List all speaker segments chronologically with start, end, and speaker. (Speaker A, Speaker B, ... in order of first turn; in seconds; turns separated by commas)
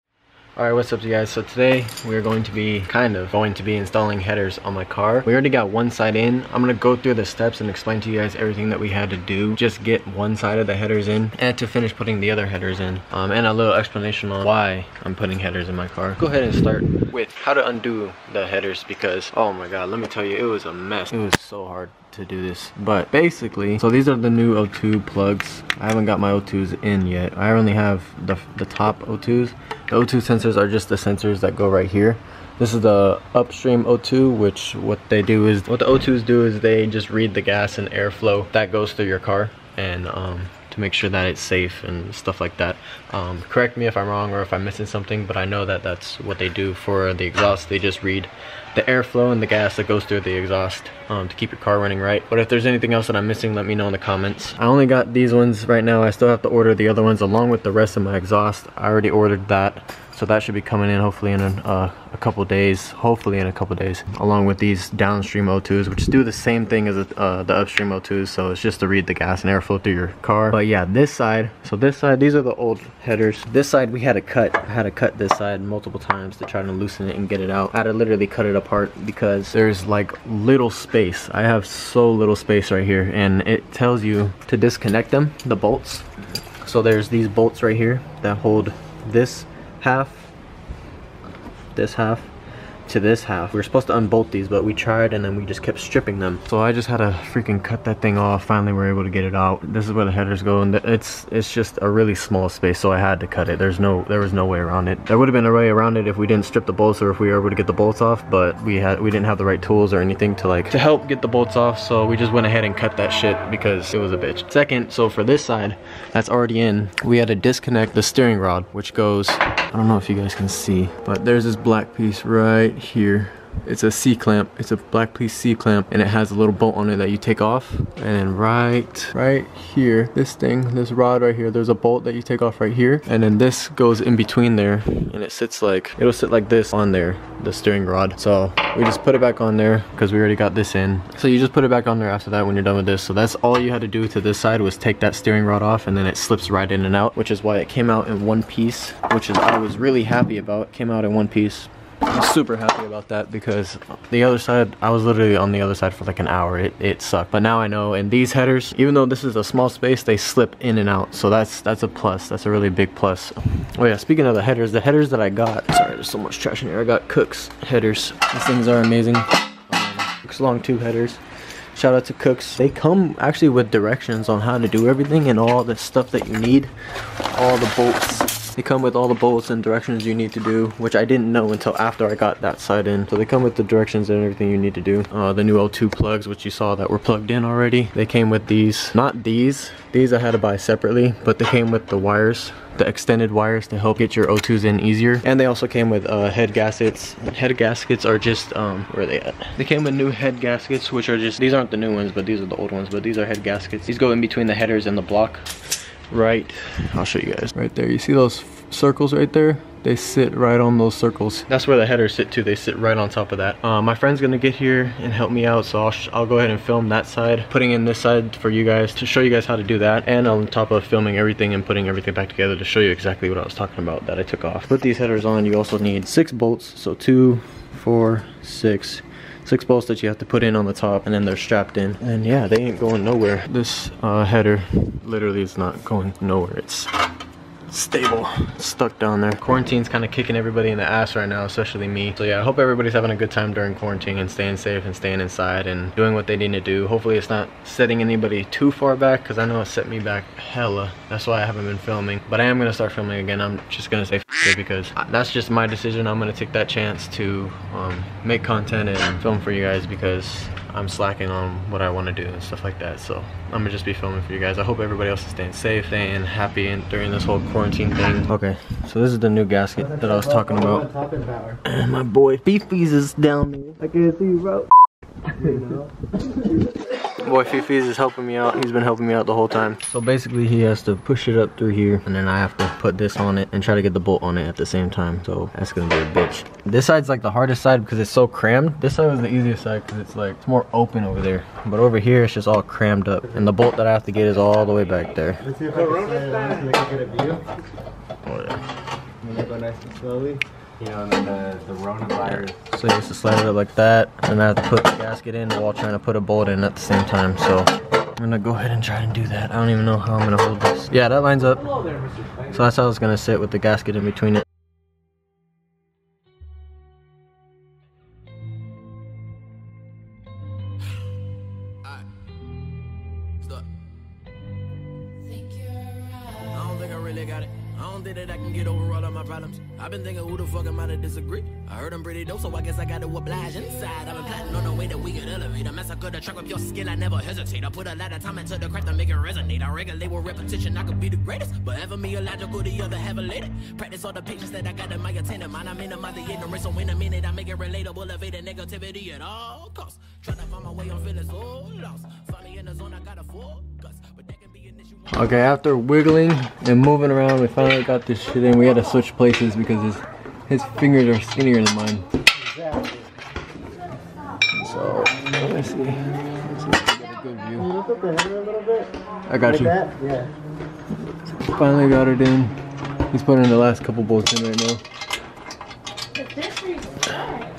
Speaker A: 0.6-86.0, Speaker A: 86.6-90.3, Speaker A: 91.7-92.3, Speaker A: 92.9-171.2, Speaker A: 171.8-176.7, Speaker A: 177.3-236.9, Speaker A: 237.7-270.9, Speaker B: 269.8-271.6, Speaker A: 271.6-274.7, Speaker B: 275.4-275.9, Speaker A: 277.2-295.5, Speaker B: 295.4-297.4, Speaker A: 298.3-298.6, Speaker B: 299.2-302.5, Speaker A: 302.2-311.8, Speaker A: 312.5-314.4, Speaker C: 326.4-355.1, Speaker A: 355.1-362.0, Speaker B: 362.4-363.1, Speaker A: 364.5-367.7, Speaker B: 367.6-368.9, Speaker A: 369.3-369.8, Speaker B: 369.4-370.3, Speaker A: 371.4-372.5, Speaker A: 373.1-374.8